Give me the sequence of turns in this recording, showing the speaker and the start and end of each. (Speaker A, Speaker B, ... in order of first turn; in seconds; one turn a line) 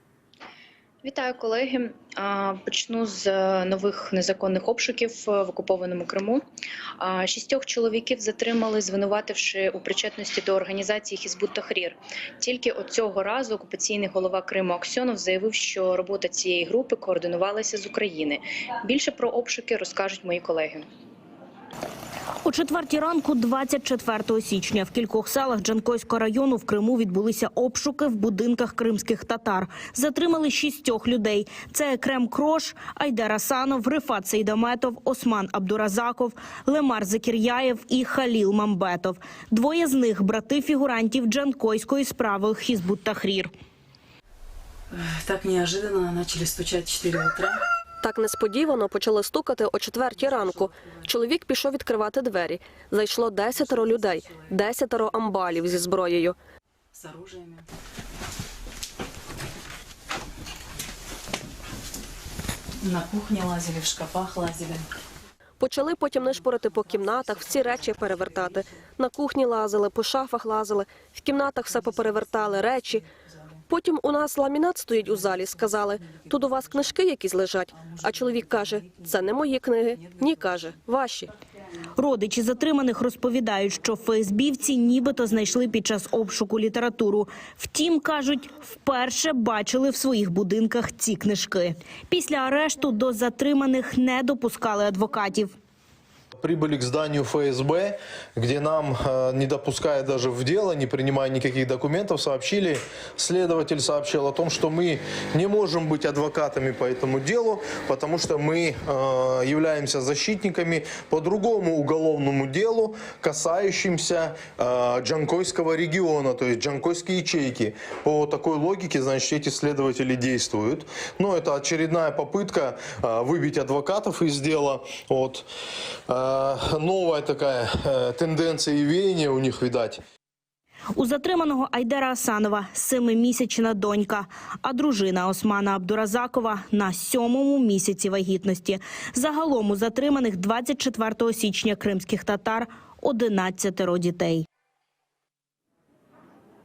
Speaker A: 1.0-6.4
Speaker A: 7.0-20.8
Speaker B: 22.4-43.5
Speaker C: 44.9-47.6
Speaker D: 48.0-56.4
Speaker C: 50.1-51.1
Speaker C: 53.5-55.1
Speaker C: 56.9-57.7
Speaker C: 62.8-64.9
Speaker D: 65.6-73.0
Speaker C: 66.2-68.8
Speaker C: 71.7-73.6
Speaker D: 73.7-81.3
Speaker C: 75.0-76.8
Speaker C: 77.7-79.1
Speaker C: 79.9-80.9
Speaker B: 82.0-95.5
Speaker E: 96.4-125.5
Speaker E: 126.1-130.0
Speaker B: 130.9-144.4